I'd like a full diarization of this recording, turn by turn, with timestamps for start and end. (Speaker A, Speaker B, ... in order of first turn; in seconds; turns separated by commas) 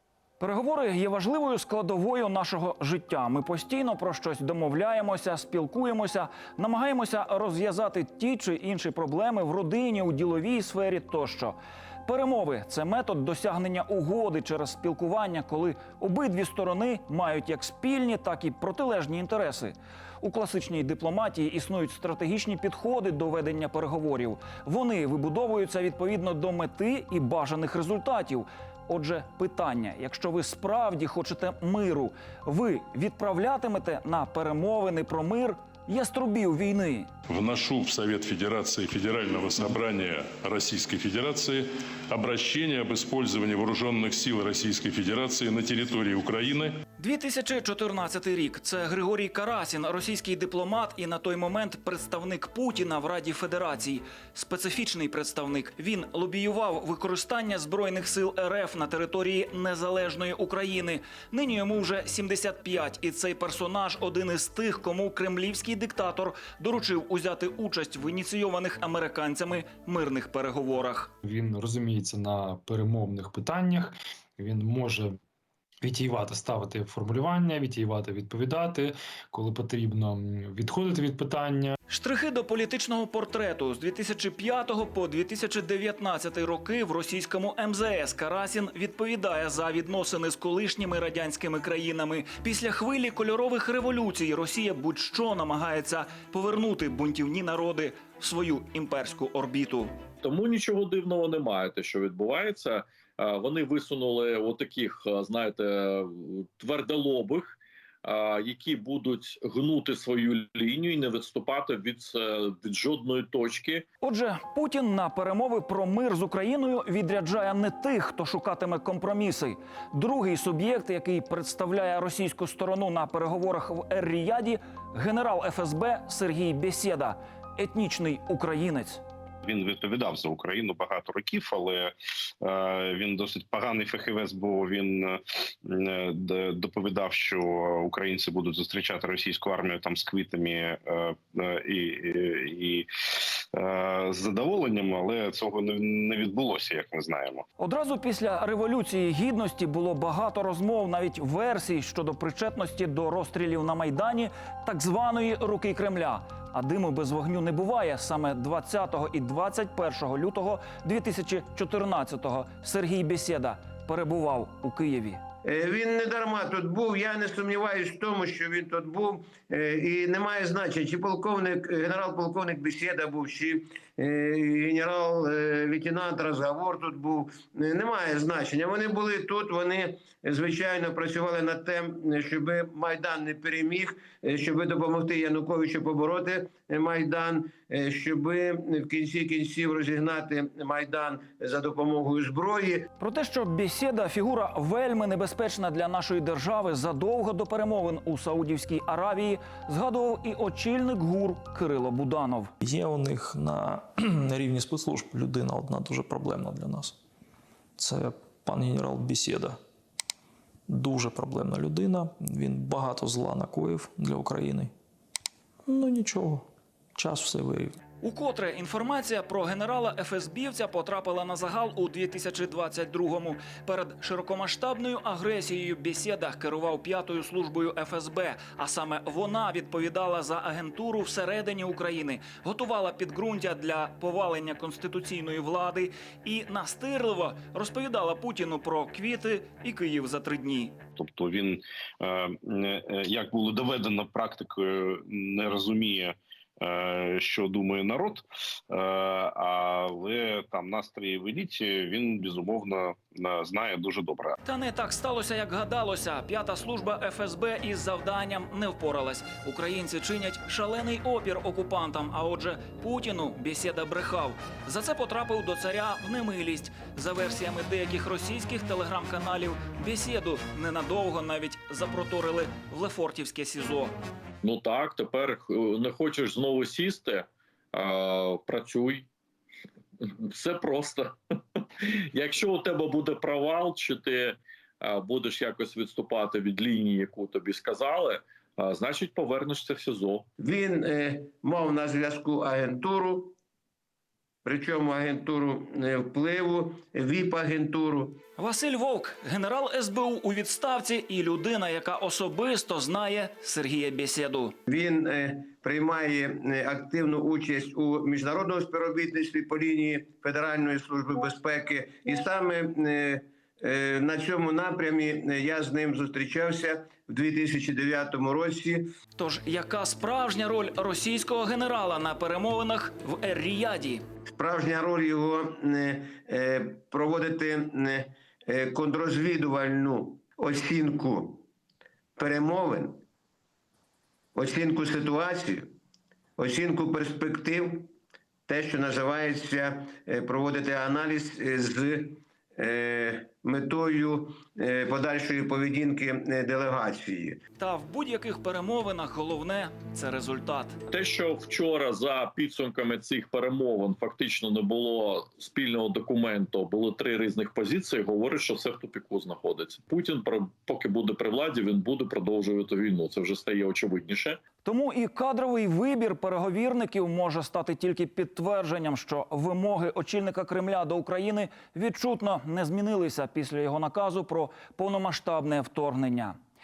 Speaker A: 0.4-37.1, Speaker B: 37.3-46.8, Speaker A: 47.0-71.1, Speaker C: 71.2-75.2, Speaker C: 75.8-81.8, Speaker A: 81.9-99.9, Speaker D: 100.2-113.9, Speaker A: 114.0-129.0, Speaker E: 129.4-147.4, Speaker A: 147.6-165.2, Speaker F: 165.4-192.9, Speaker A: 193.0-202.5, Speaker G: 202.6-207.0, Speaker G: 207.8-209.6, Speaker G: 210.7-214.7, Speaker G: 215.7-217.8, Speaker A: 218.0-240.8, Speaker E: 241.0-254.3, Speaker A: 254.4-273.9, Speaker D: 274.4-279.1, Speaker D: 280.2-281.2, Speaker D: 282.1-290.3, Speaker F: 290.4-293.3, Speaker F: 294.4-298.2, Speaker A: 298.4-304.5, Speaker F: 304.7-318.9, Speaker A: 319.2-324.0, Speaker F: 324.3-331.4, Speaker F: 332.2-333.0, Speaker F: 334.4-335.7, Speaker F: 336.4-337.9, Speaker F: 338.5-347.4, Speaker A: 347.6-350.8, Speaker D: 350.9-364.4, Speaker A: 364.6-376.4